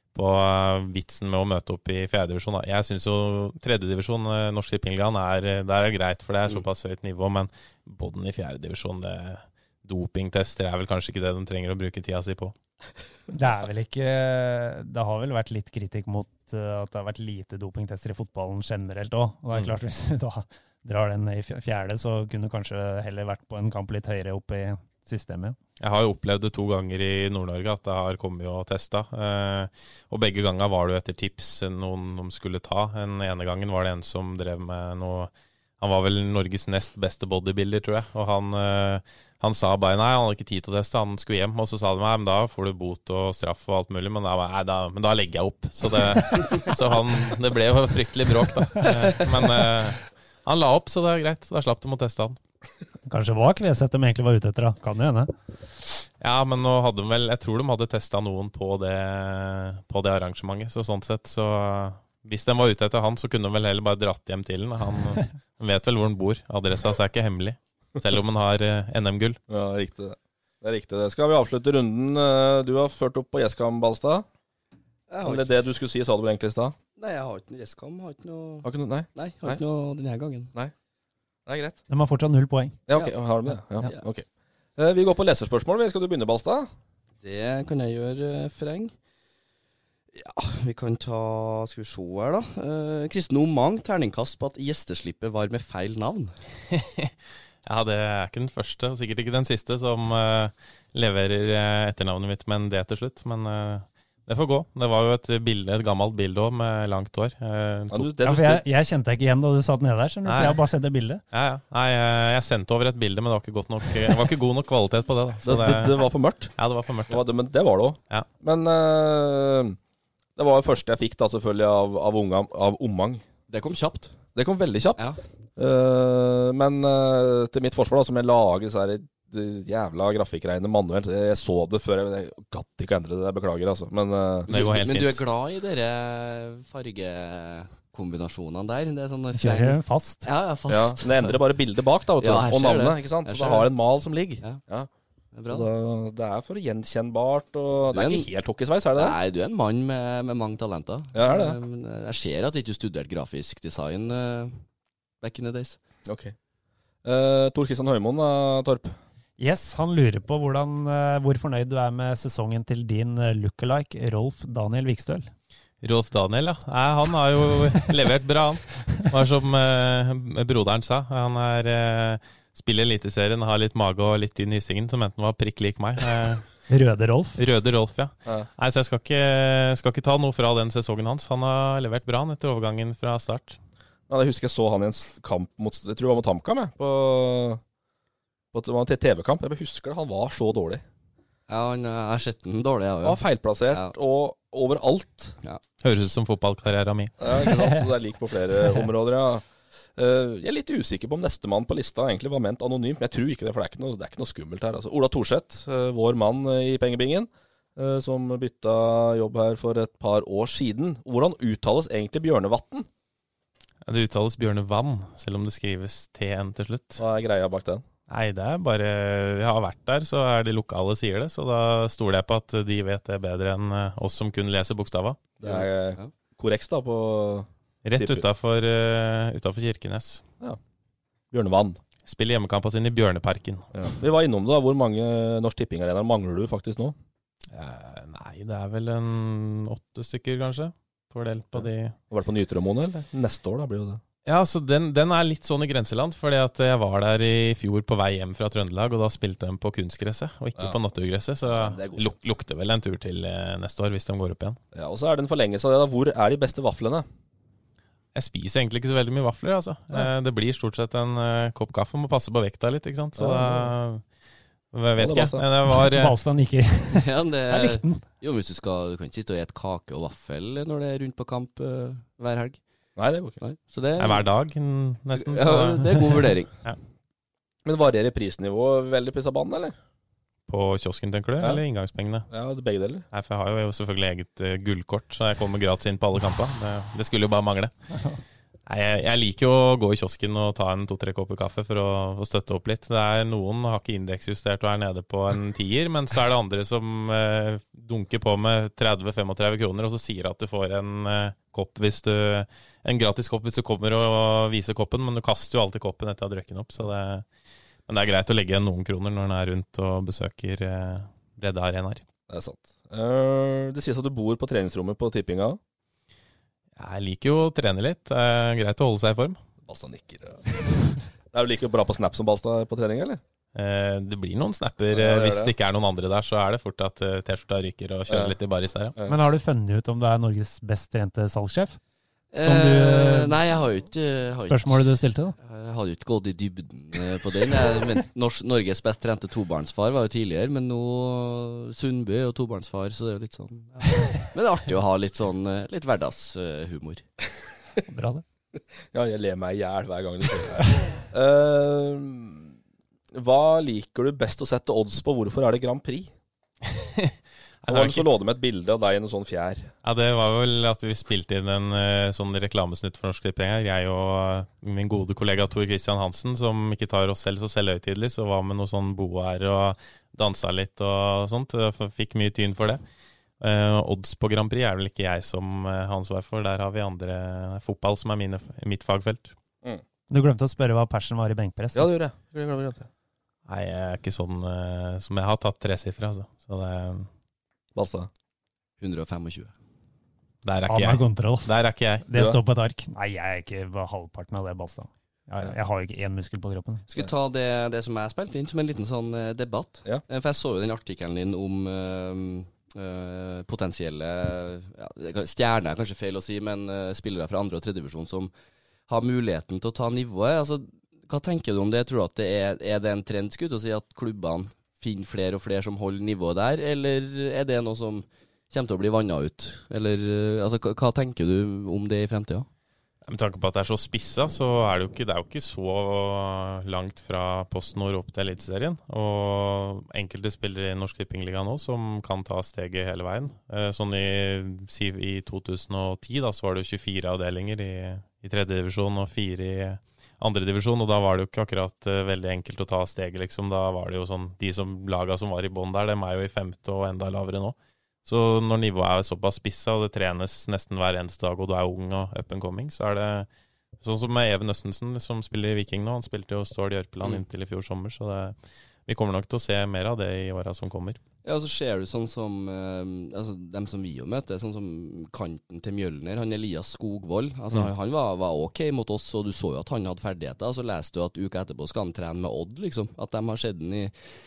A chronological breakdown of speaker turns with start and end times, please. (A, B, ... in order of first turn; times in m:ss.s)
0:00.1-0:12.5 A
0:13.3-0:25.6 B
0:25.8-0:52.4 A
0:53.1-0:55.3 B
0:56.2-1:09.4 A
1:09.5-1:14.2 C
1:15.1-1:15.5 D
1:15.2-1:16.7 C
1:17.0-1:20.5 D
1:18.6-1:19.6 C
1:21.5-1:21.8 C
1:21.9-1:22.8 B
1:22.9-1:24.2 C
1:24.8-1:26.7 C
1:27.2-1:28.9 D
1:30.1-1:36.3 D
1:36.7-1:37.1 A
1:37.6-1:48.1 A
1:47.9-1:48.6 C
1:48.2-1:51.2 B
1:50.3-1:50.6 A
1:51.3-1:56.0 A
1:55.4-1:56.5 C
1:56.6-1:57.2 A
1:57.1-1:59.8 C
2:00.4-2:03.2 C
2:03.5-2:04.2 D
2:04.4-2:05.0 C
2:05.6-2:14.5 C
2:14.5-2:15.2 A
2:14.5-2:21.4 D
2:19.4-2:20.3 B
2:20.7-2:24.9 C
2:22.2-2:23.7 D
2:25.3-2:25.7 D
2:25.5-2:29.2 C
2:27.9-2:28.3 D
2:29.0-2:34.6 D
2:31.2-2:31.6 C
2:35.2-2:35.8 D
2:36.1-2:36.3 C
2:37.0-2:39.0 C
2:39.4-2:45.3 B
2:45.8-2:56.5 A
2:56.7-2:57.4 B
2:57.4-3:03.6 A
3:04.1-3:07.6 C
3:08.5-3:10.8 C
3:11.5-3:13.2 D
3:13.0-3:15.4 C
3:15.8-3:17.2 A
3:17.2-3:19.4 C
3:20.0-3:32.9 C
3:33.9-3:37.0 A
3:37.0-3:37.8 C
3:38.1-3:45.4 A
3:45.4-3:48.3 C
3:45.4-3:46.1 D
3:47.8-3:50.2 A
3:51.3-3:51.8 C
3:52.0-3:53.7 A
3:53.7-3:57.0 C
3:57.5-4:02.0 A
4:01.6-4:04.0 C
4:04.2-4:14.6 A
4:11.4-4:12.1 C
4:14.7-4:17.1 C
4:18.2-4:24.0 A
4:23.2-4:23.7 C
4:24.7-4:26.2 A
4:25.0-4:25.4 C
4:25.7-4:28.0 B
4:26.9-4:32.6 D
4:33.0-4:33.4 C
4:33.4-4:34.3 D
4:34.0-4:36.8 A
4:35.2-4:36.5 D
4:37.6-4:39.8 C
4:40.5-4:42.3 A
4:42.3-4:43.1 C
4:43.1-4:47.7 A
4:48.7-5:07.2 A
5:07.9-5:12.0 A
5:12.3-5:15.6 C
5:16.8-5:19.4 A
5:19.7-5:23.2 C
5:23.6-5:29.0 A
5:24.9-5:25.5 C
5:28.1-5:28.4 C
5:29.1-5:31.8 B
5:32.3-5:34.8 D
5:32.4-5:33.4 B
5:34.5-5:35.4 B
5:35.4-5:47.0 D
5:47.9-5:48.2 B
5:48.9-5:52.5 C
5:53.1-5:56.1 C
5:56.7-5:58.1 A
5:57.7-5:59.7 C
5:59.8-6:12.8 A
6:13.4-6:19.3 A
6:20.1-6:21.9 B
6:21.7-6:22.9 C
6:23.5-6:27.1 A
6:27.8-6:28.1 C
6:28.8-6:29.5 D
6:30.4-6:32.1 A
6:30.7-6:31.5 B
6:32.1-6:36.8 B
6:36.9-6:48.3 D
6:48.9-7:02.5 D
7:03.1-7:33.3 A
7:33.8-7:38.4 A
7:38.9-7:41.0 A
7:41.2-7:53.9 D